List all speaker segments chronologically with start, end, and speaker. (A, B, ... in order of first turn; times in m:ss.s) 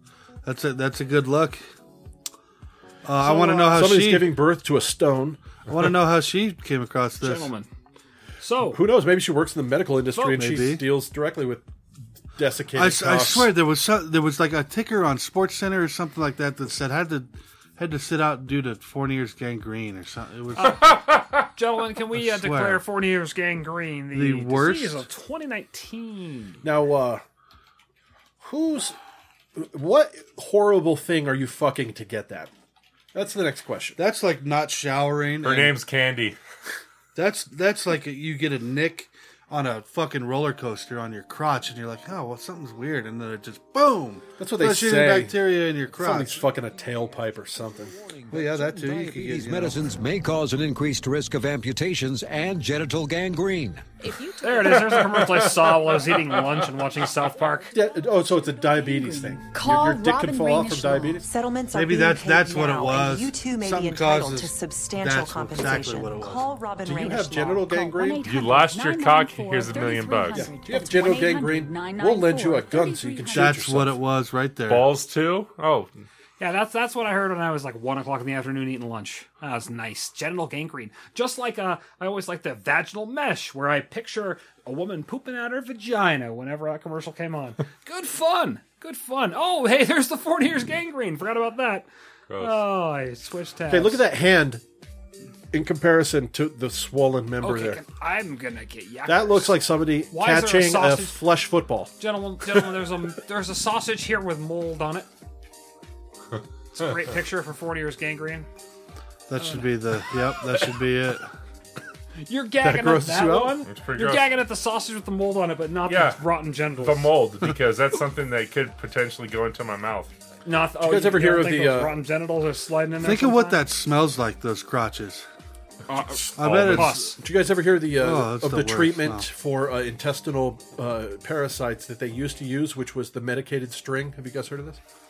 0:00.4-0:01.6 A
0:03.0-0:04.4 A
0:03.2-0:03.9 B
0:03.7-0:05.4 C
0:05.7-0:07.5 A
0:07.2-0:07.7 B
0:08.4-0:08.8 B
0:08.7-0:11.6 C
0:10.2-0:10.4 B
0:10.2-0:10.9 A
0:12.4-0:13.5 C
0:12.7-0:21.0 A
0:20.6-0:21.0 B
0:21.5-0:26.6 B
0:22.1-0:22.9 A
0:24.1-0:25.0 A
0:26.6-0:27.2 C
0:28.4-0:29.0 C
0:29.6-0:32.5 C
0:33.1-0:34.0 C
0:34.0-0:35.8 A
0:35.4-0:36.4 D
0:37.2-0:46.5 A
0:44.4-0:48.0 C
0:48.3-0:49.9 A
0:48.3-0:53.8 E
0:54.0-0:56.3 F
0:54.4-0:57.7 B
0:55.0-0:55.6 D
0:57.3-1:00.3 F
0:57.7-1:01.3 C
0:59.5-1:08.1 G
1:01.7-1:06.5 A
1:06.8-1:08.3 C
1:08.0-1:13.5 F
1:08.2-1:10.5 D
1:10.3-1:14.0 C
1:13.3-1:15.0 A
1:14.7-1:15.9 D
1:16.4-1:31.9 B
1:32.3-1:32.6 D
1:32.4-1:34.0 B
1:33.7-1:34.6 C
1:35.5-1:37.8 C
1:37.4-1:39.6 B
1:39.1-1:41.9 C
1:40.1-1:41.2 B
1:42.0-1:45.1 B
1:46.8-1:48.5 B
1:49.3-1:51.3 A
1:49.4-1:49.8 B
1:52.2-1:57.2 B
1:52.6-1:53.6 C
1:53.7-1:54.3 D
1:55.9-2:00.1 D
2:00.4-2:03.6 B
2:00.8-2:02.0 C
2:03.0-2:05.3 A
2:05.9-2:07.2 B
2:06.4-2:07.1 A
2:06.4-2:14.8 C
2:08.0-2:09.3 A